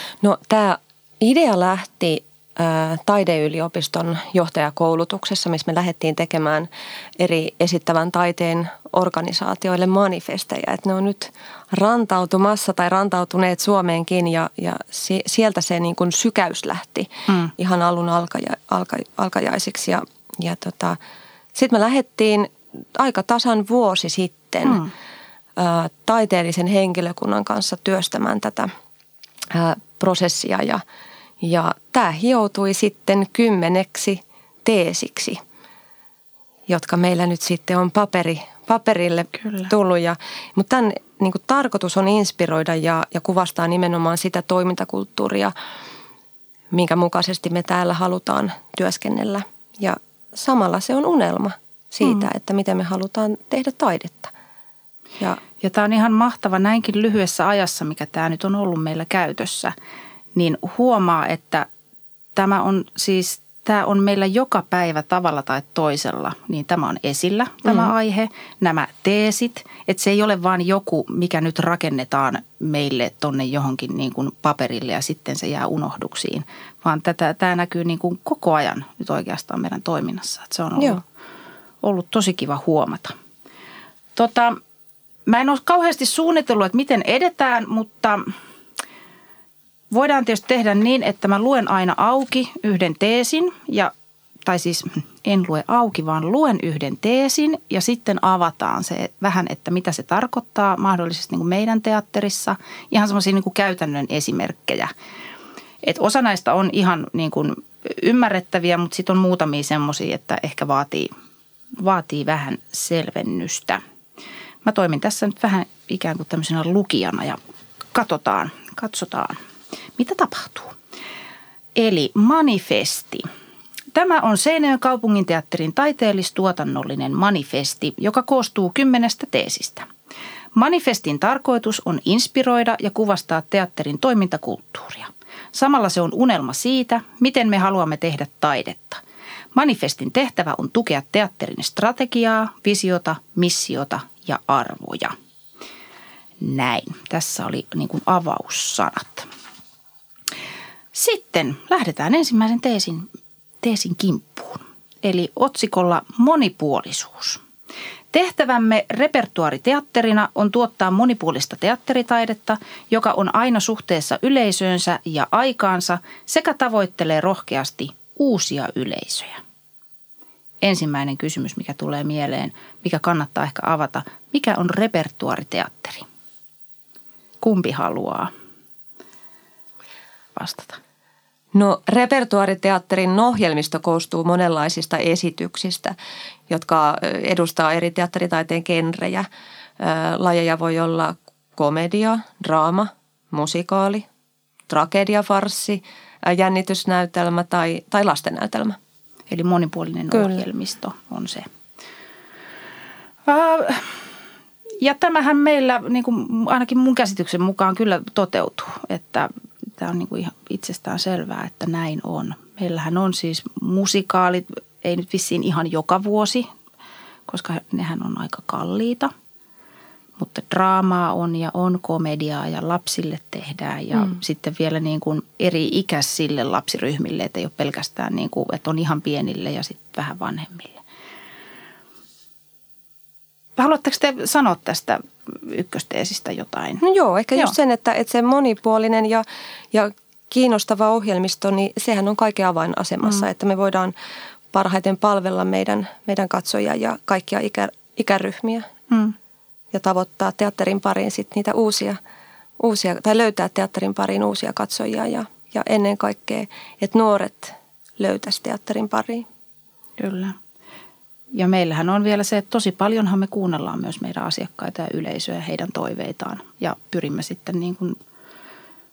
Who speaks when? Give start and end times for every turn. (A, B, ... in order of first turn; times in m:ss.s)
0:00.2-0:21.0 A
0:17.3-0:17.5 B
0:21.5-0:24.8 A
0:24.6-0:24.9 B
0:25.6-0:28.7 A
0:29.5-0:30.8 A
0:31.4-0:35.4 A
0:36.7-0:45.5 A
0:39.4-0:39.7 B
0:46.7-0:54.3 A
0:55.6-0:59.7 B
1:00.3-1:01.7 B
1:02.4-1:21.0 B
1:21.8-1:23.1 B
1:24.2-1:24.6 B
1:25.3-1:28.3 B
1:29.9-1:33.9 B
1:34.4-1:44.9 B
1:45.8-1:51.1 B
1:51.8-1:53.8 B
1:54.6-1:57.4 B
1:57.9-1:59.4 B
2:00.0-2:00.8 B
2:01.8-2:03.2 B
2:03.9-2:09.9 B
2:10.5-2:19.0 B
2:19.5-2:25.1 B
2:26.4-2:29.3 B
2:30.9-2:33.1 B
2:33.6-2:37.4 B
2:38.1-2:49.4 B
2:50.6-2:56.0 B
2:57.4-2:58.3 B
3:00.4-3:00.8 B
3:01.5-3:05.9 A
3:06.5-3:09.3 A
3:09.8-3:14.0 A
3:14.7-3:18.8 A
3:19.3-3:21.5 B
3:20.1-3:20.4 A
3:23.2-3:24.0 B
3:24.8-3:36.5 B
3:37.3-3:39.1 B
3:40.2-3:50.8 B
3:53.6-3:56.8 B
3:56.8-4:03.9 A
4:04.5-4:08.7 A
4:08.9-4:09.1 B
4:09.7-4:12.0 A
4:12.6-4:19.2 A
4:20.0-4:20.4 B
4:21.3-4:28.0 B